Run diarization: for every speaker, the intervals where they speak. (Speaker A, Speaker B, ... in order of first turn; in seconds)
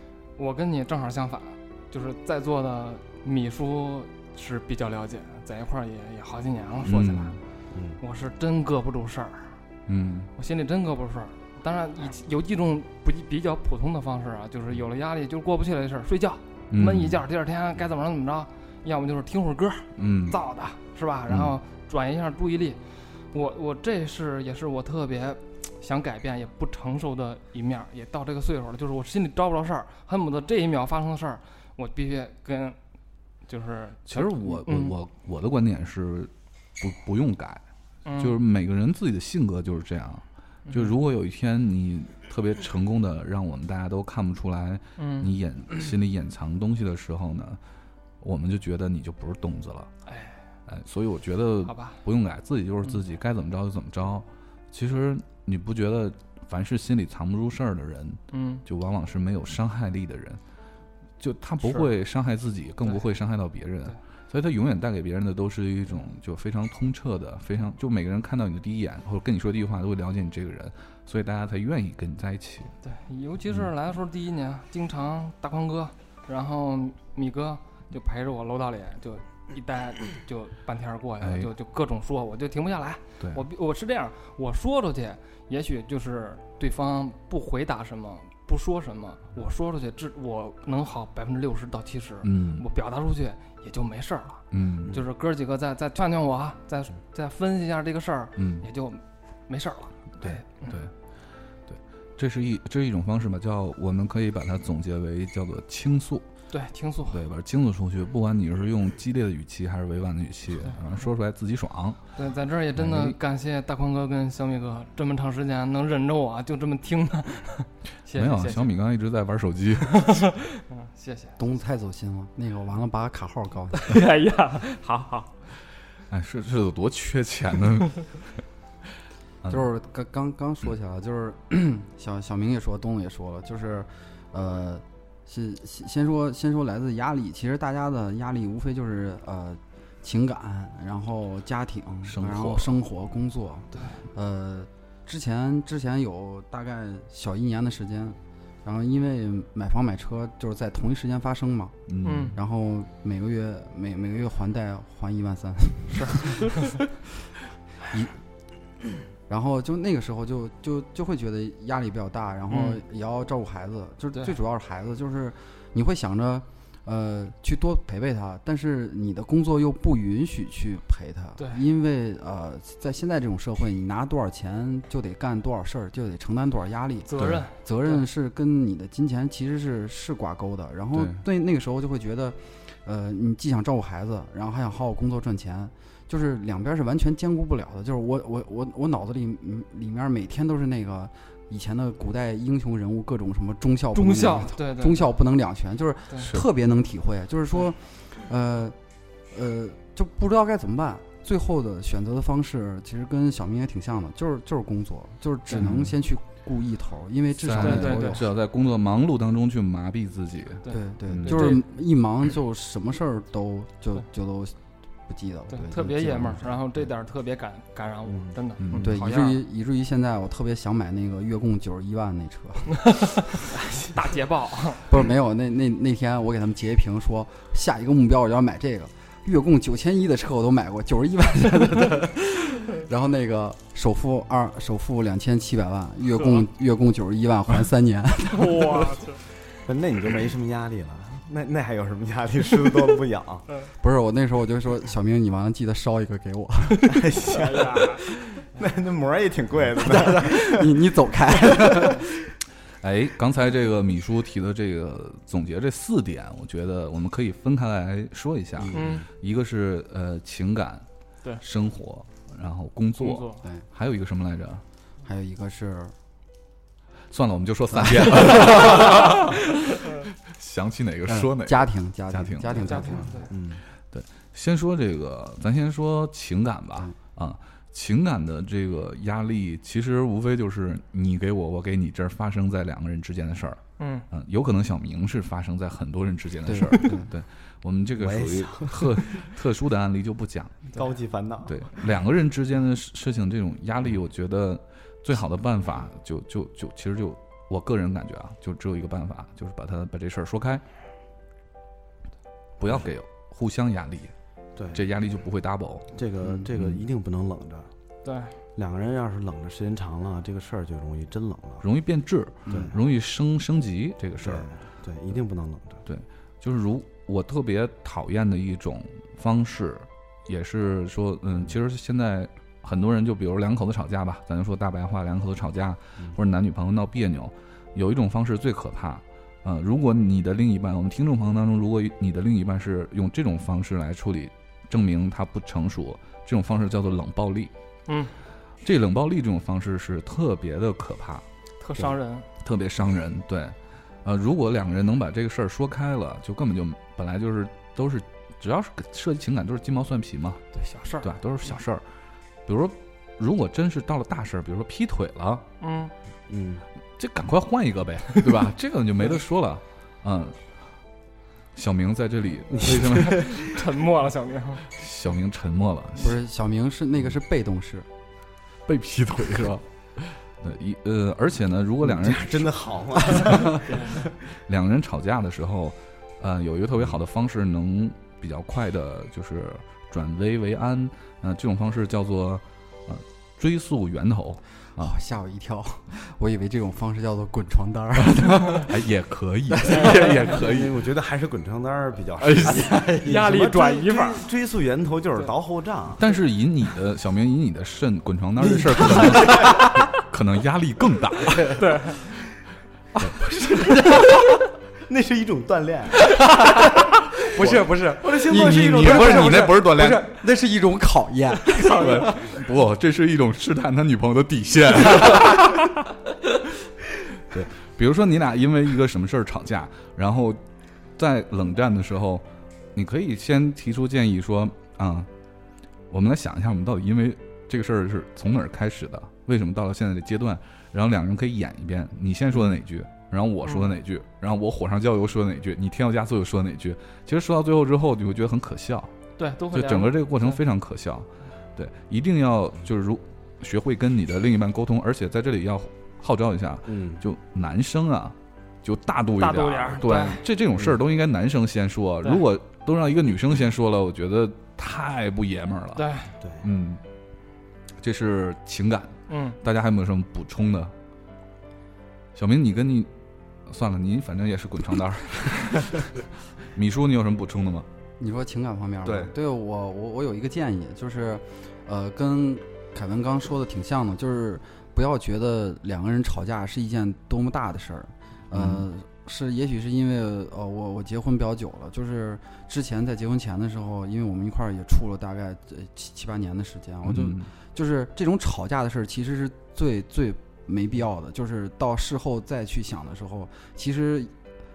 Speaker A: 0.4-7.3, 8.0-9.6, 10.4-22.8, 23.3-32.8, 33.5-34.9, 38.0-38.4, 40.7-40.9, 45.0-45.3, 50.1-50.4, 51.6-52.0, 58.3-58.6, 61.6-61.9, 72.8-100.8, 106.5-107.2, 112.2-118.7, 120.0-121.4, 123.8-125.3, 143.7-144.0, 152.0-152.4, 155.9-156.7, 162.5-162.8, 177.1-178.0, 193.9-195.1, 207.6-208.2, 210.6-211.6, 215.5-219.4, 223.9-224.9, 236.2-236.5, 238.3-239.2, 247.3-248.1, 258.8-259.0, 263.0-263.4, 272.6-273.3, 283.8-284.1, 308.0-308.4, 337.9-338.1, 341.6-342.3, 350.5-351.2, 355.6-355.9, 362.8-364.6, 373.4-374.1, 393.0-394.2, 401.6-402.0, 433.5-433.7, 439.2-440.4, 449.2-450.2, 455.8-456.1, 459.1-459.4
Speaker B: 6.8-7.4, 9.9-10.3, 16.7-17.2, 20.0-20.4, 34.1-37.6, 38.2-47.6, 48.2-49.9, 50.7-60.4, 61.2-72.7, 81.2-81.5, 92.2-92.6, 94.5-95.0, 98.4-98.7, 100.2-100.9, 101.7-106.3, 107.1-112.0, 112.8-113.2, 118.1-120.3, 126.1-128.2, 142.1-142.7, 151.9-152.4, 180.9-181.2, 205.6-205.9, 207.4-211.6, 218.6-218.9, 252.8-260.9, 261.4-264.6, 267.1-272.9, 273.9-290.7, 291.5-300.6, 302.6-304.1, 304.7-306.8, 311.6-314.5, 315.9-337.5, 338.6-341.2, 342.4-350.4, 351.0-351.8, 352.5-355.4, 357.0-360.4, 361.6-363.4, 364.7-366.2, 368.7-373.6, 374.5-384.9, 388.6-390.8, 392.2-392.8, 396.0-401.6, 408.3-410.1, 411.6-415.7, 417.2-420.4, 421.0-425.1, 425.9-438.9, 439.5-455.9, 456.4-456.8, 457.8-460.7, 462.1-462.9, 463.5-465.9, 466.5-467.7, 478.3-478.7, 486.8-487.3
Speaker C: 7.7-8.0, 218.1-218.9, 223.7-223.9, 239.6-243.5, 246.9-250.7, 251.7-251.9, 258.7-259.1, 273.3-273.6, 288.0-289.3, 290.8-291.8, 304.6-304.9, 305.9-307.7, 308.6-311.6, 312.5-312.8, 314.2-315.8, 356.3-356.6, 362.5-363.3, 371.8-374.1, 389.8-396.0, 398.5-399.7, 404.9-406.1, 407.3-409.9, 446.7-447.0, 456.2-456.5
Speaker D: 121.4-124.0, 129.5-151.8, 152.3-156.6, 159.3-198.8, 199.3-208.3, 210.7-214.6, 215.1-216.7, 218.8-222.8, 224.9-238.9, 243.8-246.9, 249.8-252.1, 265.0-265.9, 267.7-269.0, 271.1-273.2, 286.5-287.1, 366.0-367.9, 384.8-388.7, 389.5-390.2, 402.9-404.4, 406.1-412.2, 468.0-494.1